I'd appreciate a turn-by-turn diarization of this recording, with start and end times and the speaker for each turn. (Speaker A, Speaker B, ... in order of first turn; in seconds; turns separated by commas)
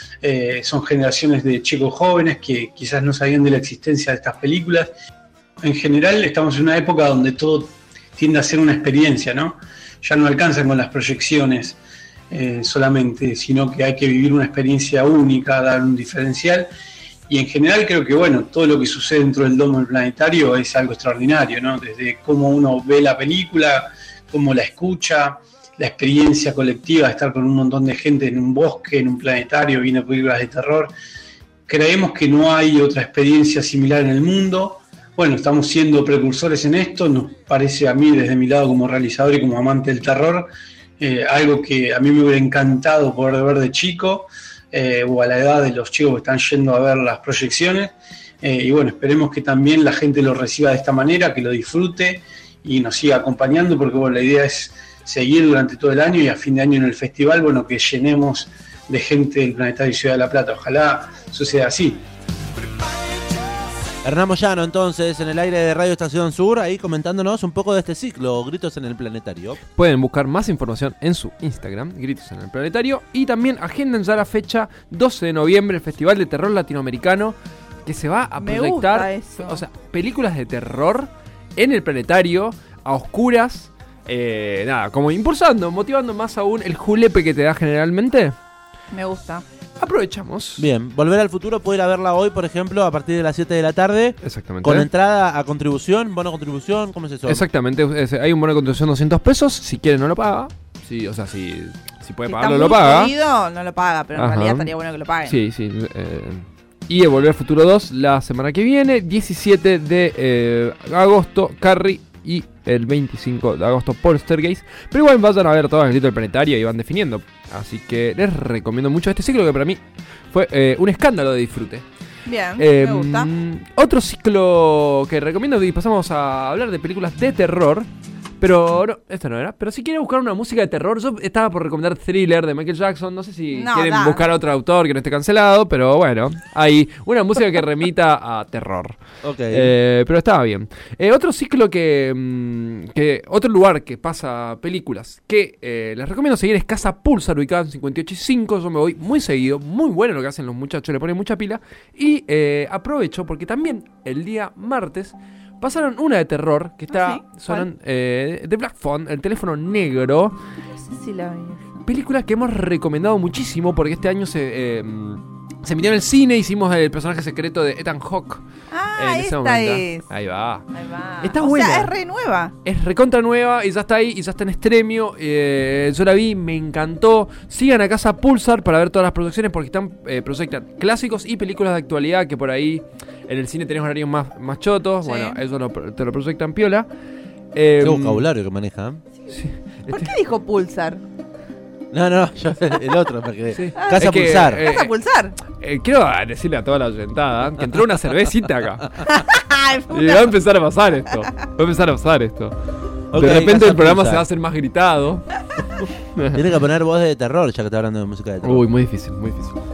Speaker A: 0.2-4.9, Speaker A: 5.6-11.8, Speaker A: 12.3-16.7, Speaker A: 17.3-30.9, Speaker A: 31.7-40.5, Speaker A: 41.0-62.0, Speaker B: 64.0-69.6, Speaker C: 69.8-88.3, Speaker D: 78.4-79.6, Speaker D: 88.9-89.4, Speaker C: 89.8-90.7, Speaker B: 90.6-97.4, Speaker C: 94.2-94.9, Speaker C: 97.3-103.1, Speaker D: 102.2-105.3, Speaker C: 104.2-104.7, Speaker C: 105.3-119.8, Speaker C: 120.3-121.8, Speaker D: 122.2-123.3, Speaker C: 122.6-127.9, Speaker C: 128.4-139.0, Speaker D: 133.5-134.2, Speaker B: 139.2-139.7, Speaker C: 139.5-160.3, Speaker D: 156.9-157.7, Speaker D: 160.8-161.8, Speaker C: 161.8-168.4, Speaker D: 168.7-170.0, Speaker C: 169.0-170.7, Speaker D: 170.7-172.5, Speaker C: 171.2-171.9, Speaker C: 172.6-186.9, Speaker D: 185.0-185.3, Speaker C: 187.5-188.2, Speaker B: 187.8-189.0, Speaker C: 189.3-190.1, Speaker D: 189.9-191.0, Speaker B: 191.9-194.6, Speaker C: 193.5-199.0, Speaker D: 194.6-195.3, Speaker D: 199.0-200.3, Speaker C: 199.9-202.6, Speaker B: 203.1-204.2, Speaker C: 203.1-205.3, Speaker C: 206.2-206.4, Speaker B: 206.3-208.6, Speaker C: 208.4-209.6